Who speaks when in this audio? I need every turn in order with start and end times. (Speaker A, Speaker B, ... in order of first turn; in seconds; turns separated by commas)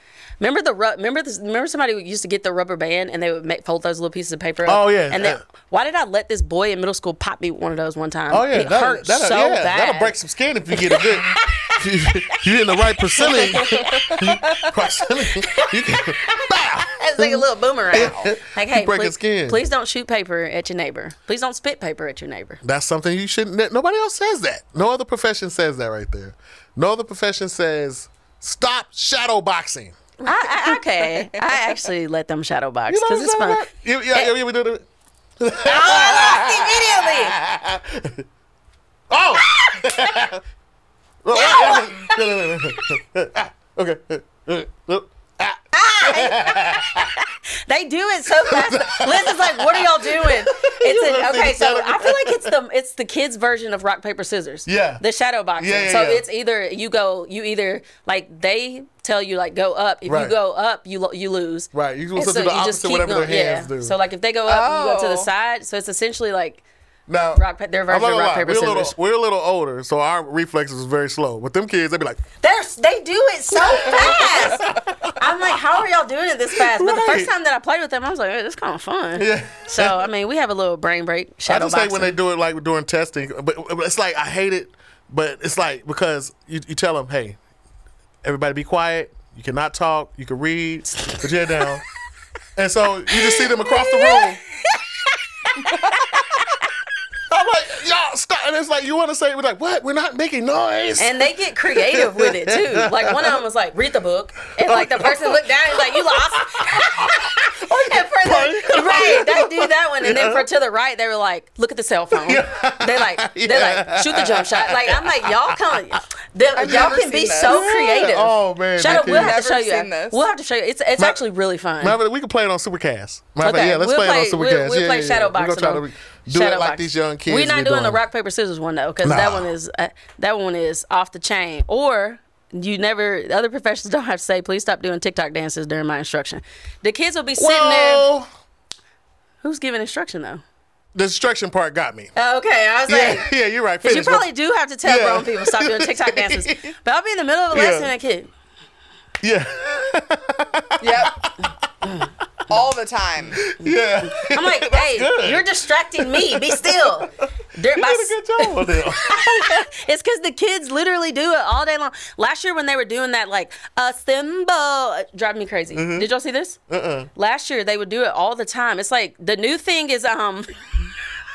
Speaker A: 0.4-10.1, Speaker B: 4.6-5.4, Speaker B: 8.3-19.6, Speaker A: 10.7-11.8, Speaker A: 12.3-14.2, Speaker C: 14.1-14.7, Speaker A: 16.2-22.6, Speaker B: 22.6-29.9, Speaker C: 30.2-31.5, Speaker A: 30.2-34.3, Speaker B: 32.9-34.8, Speaker B: 35.4-38.2, Speaker A: 35.6-37.4, Speaker B: 39.1-40.4, Speaker A: 39.5-39.9, Speaker B: 41.2-47.1, Speaker A: 41.3-42.8, Speaker A: 45.7-66.6, Speaker B: 48.4-52.5, Speaker B: 54.6-55.0, Speaker B: 55.6-56.2, Speaker B: 60.0-60.4, Speaker B: 61.7-63.9, Speaker C: 64.5-65.3, Speaker B: 67.1-72.2, Speaker A: 67.3-68.9, Speaker A: 72.4-82.2, Speaker B: 73.5-75.6, Speaker B: 76.5-77.3, Speaker B: 79.2-80.1, Speaker B: 81.5-87.4, Speaker B: 88.2-91.8, Speaker A: 90.9-91.7, Speaker B: 92.5-94.4, Speaker A: 93.1-96.4, Speaker B: 97.3-103.4, Speaker A: 101.0-122.0, Speaker B: 104.6-110.5, Speaker B: 112.1-115.6, Speaker C: 116.5-117.6, Speaker B: 117.5-119.4, Speaker C: 118.8-120.2, Speaker B: 121.8-128.0, Speaker A: 123.4-138.1, Speaker B: 129.0-129.5, Speaker B: 137.4-138.3, Speaker A: 139.4-140.4, Speaker B: 140.9-142.1, Speaker A: 142.1-143.3, Speaker B: 142.9-144.3, Speaker A: 143.8-148.3, Speaker B: 144.8-146.7, Speaker B: 147.5-147.9, Speaker B: 149.2-151.5, Speaker C: 150.8-151.3, Speaker C: 152.5-153.4, Speaker B: 153.3-159.6, Speaker A: 153.6-166.6, Speaker B: 165.7-166.1, Speaker B: 166.7-167.1, Speaker A: 167.1-170.9